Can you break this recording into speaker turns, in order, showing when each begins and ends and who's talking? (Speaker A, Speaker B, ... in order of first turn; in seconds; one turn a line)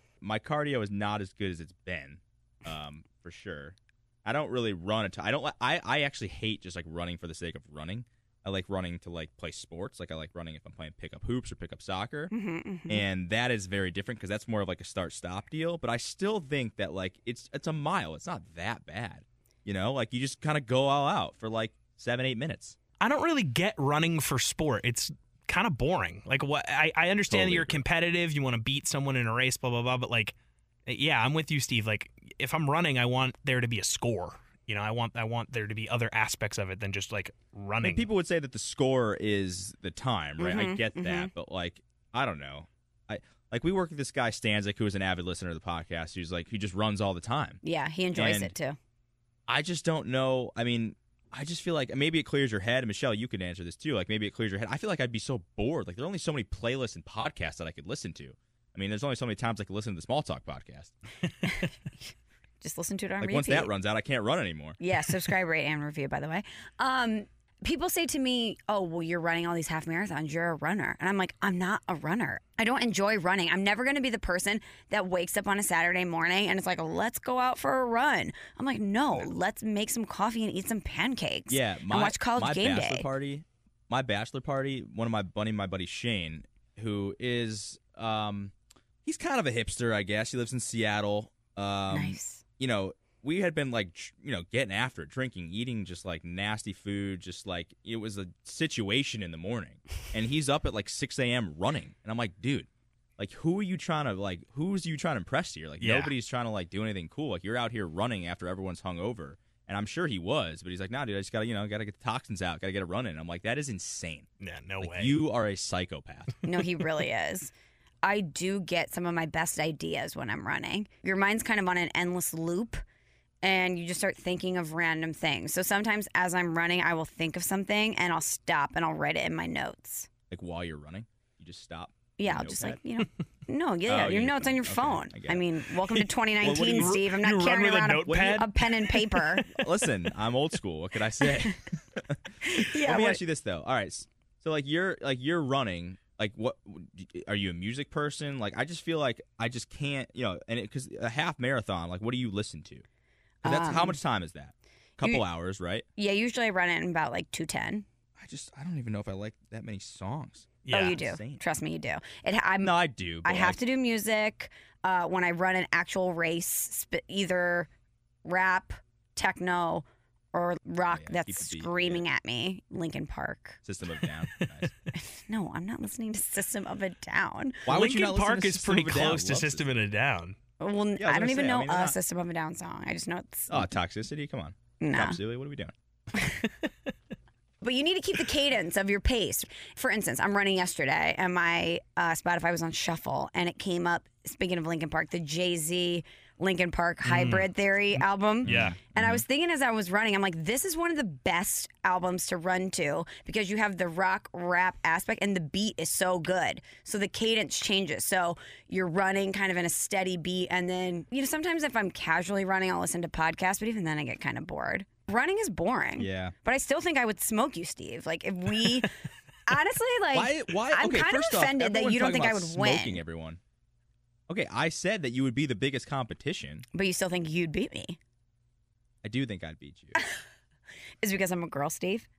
Speaker A: 0.2-12.3
Speaker B: 12.3-13.0
Speaker A: 12.9-22.8
Speaker C: 23.0-30.3
Speaker A: 27.3-27.8
Speaker C: 30.9-38.0
Speaker A: 37.8-47.6
Speaker B: 40.4-41.3
Speaker B: 47.6-48.8
Speaker A: 48.1-48.5
Speaker A: 49.5-60.9
Speaker B: 62.6-63.7
Speaker A: 63.2-64.8
Speaker B: 64.8-83.1
Speaker A: 81.5-88.5
Speaker A: 89.0-114.3
Speaker B: 91.9-92.4
Speaker C: 105.8-106.1
Speaker C: 114.4-115.2
Speaker A: 114.8-116.3
Speaker B: 116.4-122.8
Speaker B: 123.4-130.1
Speaker A: 130.3-132.8
Speaker B: 132.2-139.5
Speaker A: 133.9-135.4
Speaker C: 136.4-139.3
Speaker A: 136.4-137.0
Speaker A: 139.5-152.8
Speaker B: 142.4-143.2
Speaker B: 153.4-154.0
Speaker A: 153.4-155.8
Speaker B: 155.9-157.8
Speaker A: 158.2-161.4
Speaker C: 160.7-161.0
Speaker B: 160.7-167.7
Speaker A: 162.6-163.6
Speaker B: 168.2-173.6
Speaker A: 170.9-172.0
Speaker A: 173.6-174.7
Speaker B: 174.9-177.7
Speaker A: 177.7-179.7
Speaker C: 177.7-180.3
Speaker B: 180.6-183.7
Speaker A: 181.0-181.9
Speaker A: 183.5-185.7
Speaker B: 184.8-185.2
Speaker B: 187.6-218.9
Speaker C: 197.0-197.5
Speaker C: 198.4-198.8
Speaker A: 198.4-199.2
Speaker A: 216.0-216.3
Speaker B: 219.4-223.0
Speaker A: 220.1-223.4
Speaker A: 224.3-226.6
Speaker B: 226.7-228.0
Speaker A: 229.0-229.9
Speaker B: 231.0-232.1